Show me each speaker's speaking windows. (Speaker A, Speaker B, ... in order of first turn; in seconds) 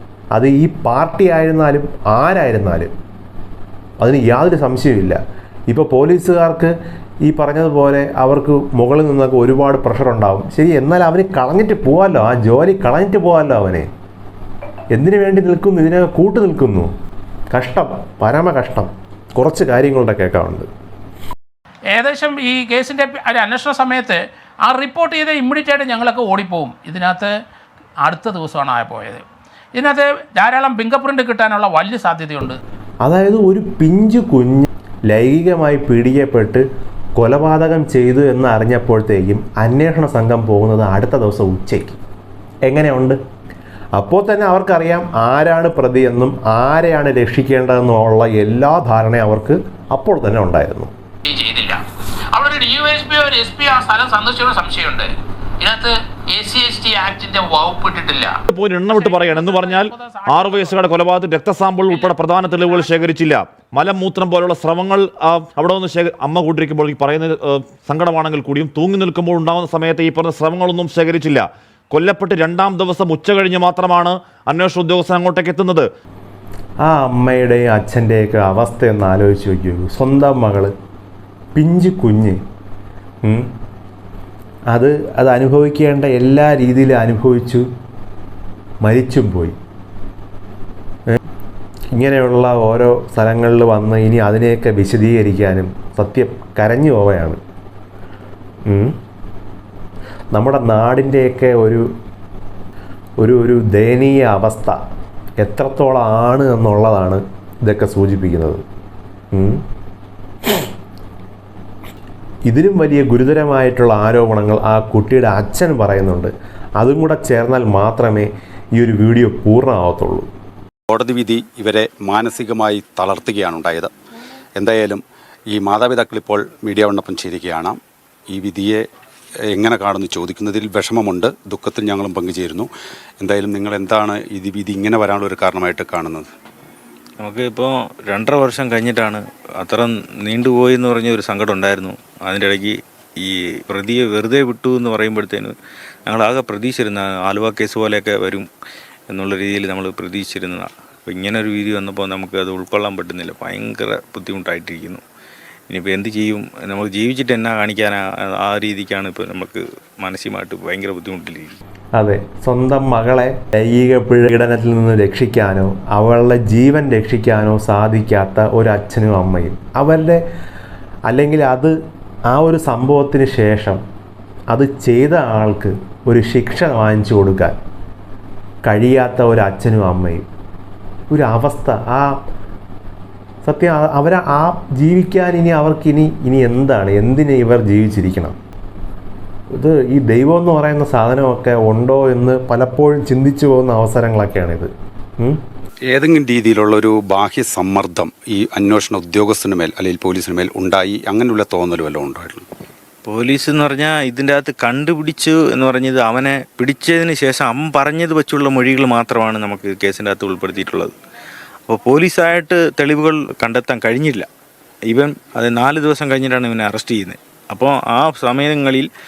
Speaker A: 0.3-2.9, 4.0-6.7, 7.2-13.9, 14.9-16.9, 17.5-20.7, 33.0-36.6, 37.2-42.0, 42.7-43.2, 44.0-50.9, 76.8-80.7, 81.5-82.4, 83.2-83.5, 84.7-87.7, 88.8-89.6, 92.0-97.4, 98.7-98.9, 100.3-101.8, 103.2-104.8, 105.4-108.6, 109.3-109.6, 112.5-120.3, 161.9-170.2, 171.1-171.7, 172.3-173.8, 174.5-177.6, 178.7-180.2, 181.1-182.1, 183.4-188.4, 189.6-195.4
Speaker B: 21.9-27.3, 28.0-32.6, 51.2-51.8, 52.3-55.1, 55.6-58.3, 58.9-60.8
Speaker C: 58.5-75.9
Speaker D: 120.9-123.9, 124.6-125.0, 125.6-127.8, 128.3-128.8, 129.5-132.7, 133.2-136.3, 195.9-202.4
Speaker E: 137.2-145.5, 146.1-148.5, 149.1-155.0, 155.7-161.6, 203.1-210.9, 211.7-214.3, 214.9-218.9